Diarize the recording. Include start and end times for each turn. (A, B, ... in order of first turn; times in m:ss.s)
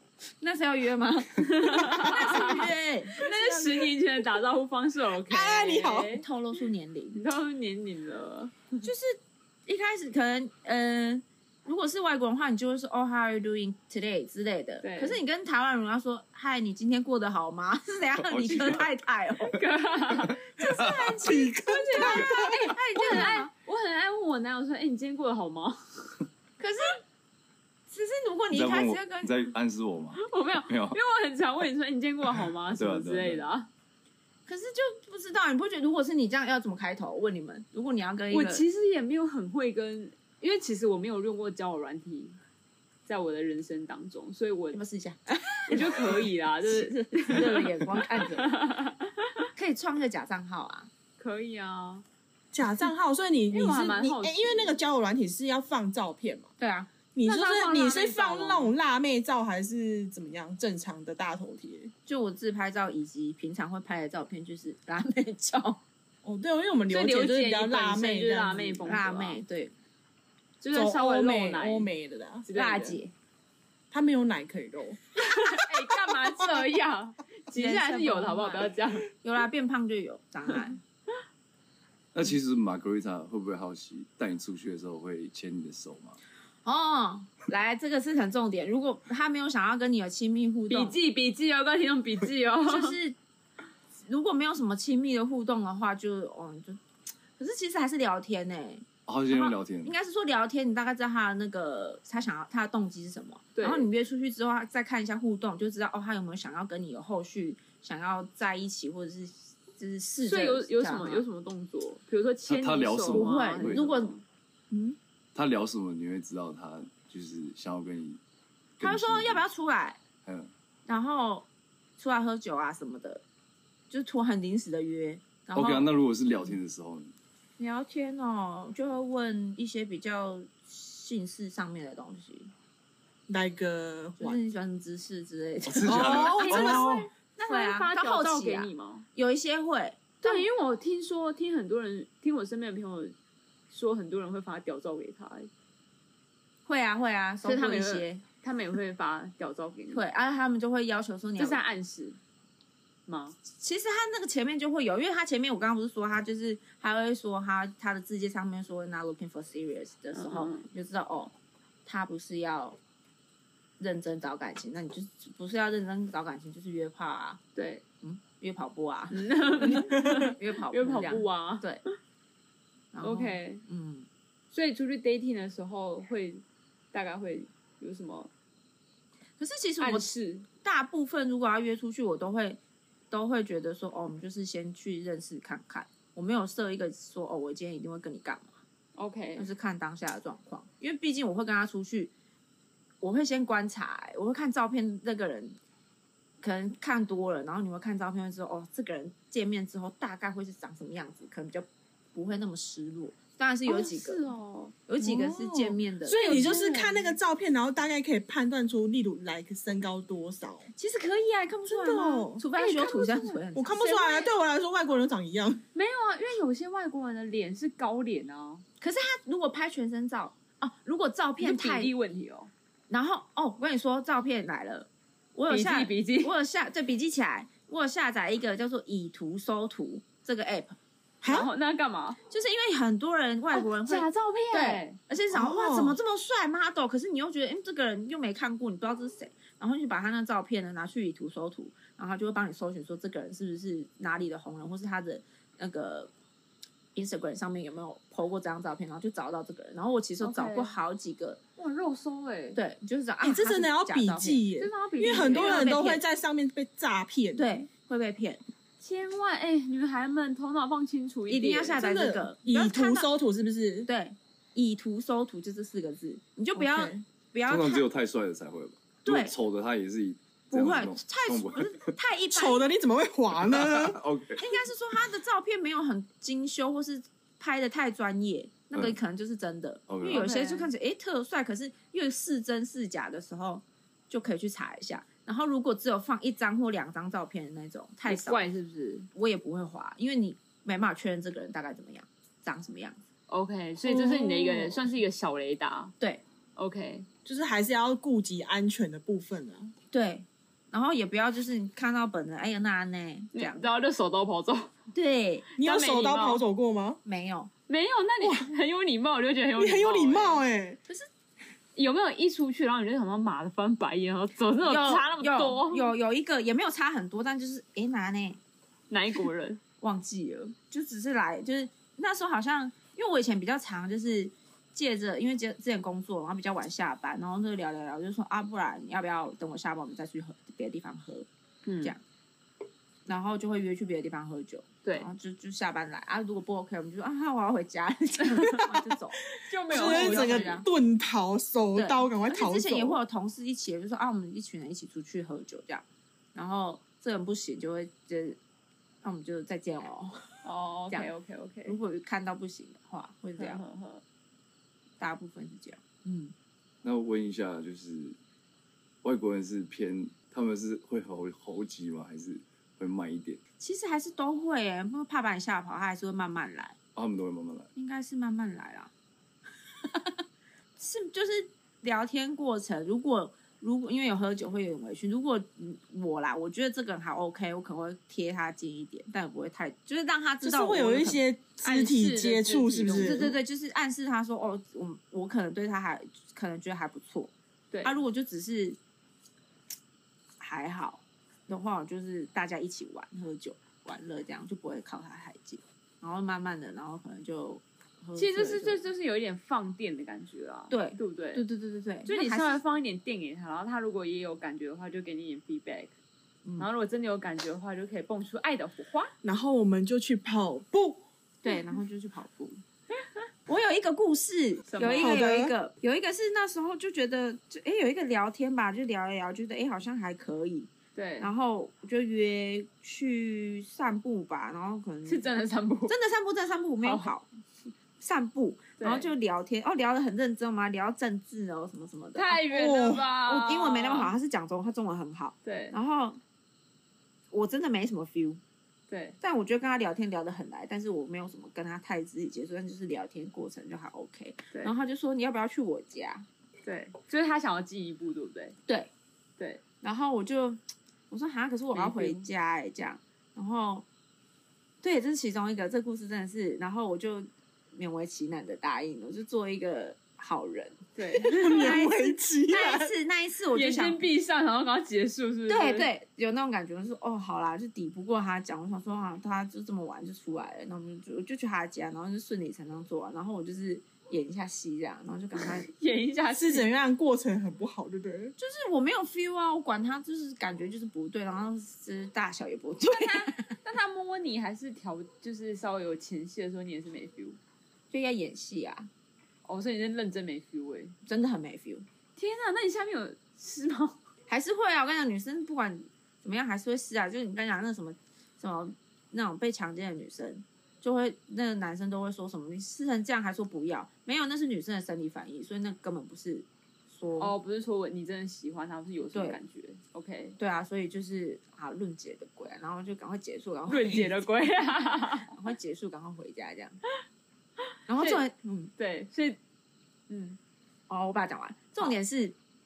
0:00.4-0:03.3 A
0:01.4-0:06.2 B
0:03.2-0:03.9 C
0:05.3-0:06.1 C
0:06.1-0:07.2 A
0:07.1-0:08.8 B
0:08.8-0:19.6 A
0:14.8-0:15.2 B
0:18.2-0:18.9 D
0:19.5-0:26.2 B
0:20.6-0:23.5 A
0:20.6-0:21.1 D
0:21.2-0:22.7 C
0:26.6-0:27.0 A
0:27.9-0:29.5 A
0:28.5-0:31.0 D
0:30.1-0:33.7 B
0:32.7-0:33.4 D
0:34.5-0:38.6 A
0:38.3-0:42.4 B
0:43.0-0:44.8 B
0:44.7-0:48.6 A
0:45.7-0:49.4 B
0:49.5-0:50.9 A
0:51.2-0:52.0 B
0:52.5-0:56.5 C
0:53.5-0:54.8 B
0:56.6-0:57.4 A
0:57.1-1:01.9 C
0:57.2-0:58.7 B
1:02.0-1:05.8 A
1:06.2-1:08.9 C
1:06.9-1:09.4 B
1:08.8-1:09.7 A
1:10.6-1:11.9 B
1:10.7-1:12.5 C
1:12.4-1:13.0 B
1:12.5-1:13.1 A
1:13.9-1:15.0 C
1:15.2-1:19.1 B
1:17.5-1:20.8 A
1:22.1-1:26.2 D
1:26.6-1:31.0 A
1:30.7-1:33.0 B
1:32.6-1:33.2 A
1:34.0-1:36.8 A
1:37.4-1:51.2 A
1:39.1-1:39.9 D
1:43.5-1:43.9 B
1:50.2-1:54.2 B
1:52.5-1:53.8 D
1:53.1-1:54.1 A
1:54.7-1:55.0 A
1:55.3-1:58.2 D
1:58.8-1:59.4 D
1:58.8-2:00.0 A
2:00.2-2:00.5 D
2:00.9-2:01.4 A
2:02.0-2:03.2 A
2:03.9-2:05.9 A
2:05.5-2:07.1 D
2:07.6-2:12.5 A
2:13.3-2:14.4 C
2:14.2-2:20.4 A
2:15.6-2:17.1 D
2:15.8-2:16.9 C
2:17.4-2:19.0 B
2:20.2-2:23.1 B
2:23.7-2:25.5 B
2:26.6-2:28.2 A
2:27.4-2:30.0 B
2:29.9-2:31.6 A
2:31.4-2:32.2 B
2:33.1-2:33.4 B
2:33.6-2:41.3 A
2:40.1-2:40.7 B
2:41.8-2:42.8 A
2:43.8-2:47.4 A
2:47.5-2:47.8 B
2:48.0-2:51.8 A
2:49.1-2:51.7 B
2:52.9-2:54.1 A
2:53.0-2:53.6 B
2:54.5-2:58.3 B
2:59.4-3:00.1 A
2:59.8-3:00.5 B
3:00.6-3:02.6 A
3:03.1-3:08.6 A
3:09.0-3:09.5 B
3:09.4-3:12.1 A
3:13.0-3:15.6 A
3:16.4-3:24.2 A
3:23.6-3:24.7 B
3:24.8-3:26.6 A
3:25.0-3:30.7 C
3:26.1-3:27.2 B
3:30.8-3:34.3 A
3:31.7-3:32.4 C
3:32.5-3:33.4 B
3:33.5-3:35.6 C
3:35.7-3:38.6 B
3:38.8-3:41.9 A
3:41.4-3:42.5 B
3:42.9-3:50.8 A
3:45.5-3:46.3 B
3:51.2-3:51.5 C
3:51.2-3:52.2 B
3:52.3-4:06.1 A
3:53.5-3:55.0 B
3:55.3-3:56.0 C
4:06.9-4:11.4 A
4:10.2-4:10.7 B
4:11.6-4:12.6 B
4:12.5-4:14.4 A
4:13.2-4:17.5 C
4:14.6-4:15.8 B
4:15.1-4:16.0 A
4:17.3-4:18.4 A
4:18.8-4:21.8 B
4:21.3-4:23.1 A
4:21.8-4:23.9 C
4:23.8-4:27.9 A
4:26.6-4:27.0 C
4:27.5-4:31.9 D
4:29.0-4:29.3 A
4:30.5-4:32.6 A
4:32.3-4:34.0 C
4:33.4-4:34.4 D
4:34.3-4:48.4 A
4:39.9-4:40.2 D
4:40.0-4:40.7 B
4:48.0-4:49.1 B
4:49.1-4:53.0 A
4:53.3-4:55.9 B
4:53.9-4:54.7 A
4:56.6-4:57.1 B
4:57.2-4:59.7 C
4:59.9-5:03.6 A
5:03.3-5:04.7 B
5:04.9-5:05.5 A
5:05.6-5:06.4 B
5:05.6-5:07.0 C
5:07.0-5:07.5 A
5:07.7-5:10.4 B
5:08.2-5:08.5 C
5:09.6-5:10.8 C
5:11.7-5:15.9 B
5:14.6-5:18.4 A
5:18.9-5:19.6 B
5:19.8-5:31.3 A
5:31.6-5:31.9 B
5:33.0-5:40.7 A
5:34.8-5:35.1 B
5:38.4-5:38.6 B
5:39.5-5:40.6 B
5:39.7-5:43.0 C
5:41.7-5:48.4 A
5:49.0-5:51.1 A
5:50.4-5:51.8 B
5:51.6-5:53.6 A
5:53.4-5:54.0 B
5:55.0-5:56.3 A
5:56.8-5:58.2 D
5:59.0-6:03.4 D
6:03.6-6:06.8 A
6:07.0-6:07.7 D
6:07.8-6:08.9 A
6:09.8-6:10.2 A
6:10.8-6:21.9 A
6:20.4-6:23.3 C
6:21.6-6:23.3 B
6:22.9-6:27.3 A
6:27.8-6:28.8 A
6:30.4-6:38.8 A
6:38.1-6:41.4 B
6:40.7-6:42.6 A
6:42.0-6:45.9 B
6:46.6-6:49.1 B
6:49.2-6:51.0 C
6:51.4-6:52.6 A
6:53.5-7:05.3 A
6:54.7-6:55.2 B
6:55.0-6:55.5 C
7:00.9-7:01.3 B
7:05.0-7:06.0 B
7:05.9-7:07.3 A
7:06.8-7:07.1 B
7:08.0-7:12.5 A
7:08.8-7:09.1 B
7:12.1-7:14.1 B
7:12.5-7:13.1 C
7:13.1-7:16.2 A
7:15.4-7:15.8 B
7:17.3-7:18.4 A
7:18.9-7:19.2 B
7:19.2-7:26.3 A
7:26.6-7:28.6 B
7:29.8-7:33.8 A
7:31.7-7:32.2 B
7:34.8-7:40.9 A
7:41.0-7:41.8 B
7:41.2-7:42.9 C
7:41.4-7:44.0 A
7:43.5-7:45.9 B
7:45.5-7:55.7 A
7:55.7-7:56.7 B
7:56.3-7:58.3 C
7:58.4-8:03.5 A
8:02.8-8:07.4 B
8:07.9-8:08.9 A
8:09.4-8:10.9 B
8:11.0-8:11.8 A
8:12.2-8:14.0 B
8:14.3-8:27.3 A
8:27.2-8:30.4 B
8:29.1-8:29.4 A
8:30.4-8:34.2 A
8:33.7-8:35.3 B
8:35.2-8:36.8 A
8:37.9-8:38.7 A
8:38.0-8:38.2 B
8:38.8-8:39.4 B
8:40.1-8:40.4 B
8:40.9-8:42.3 A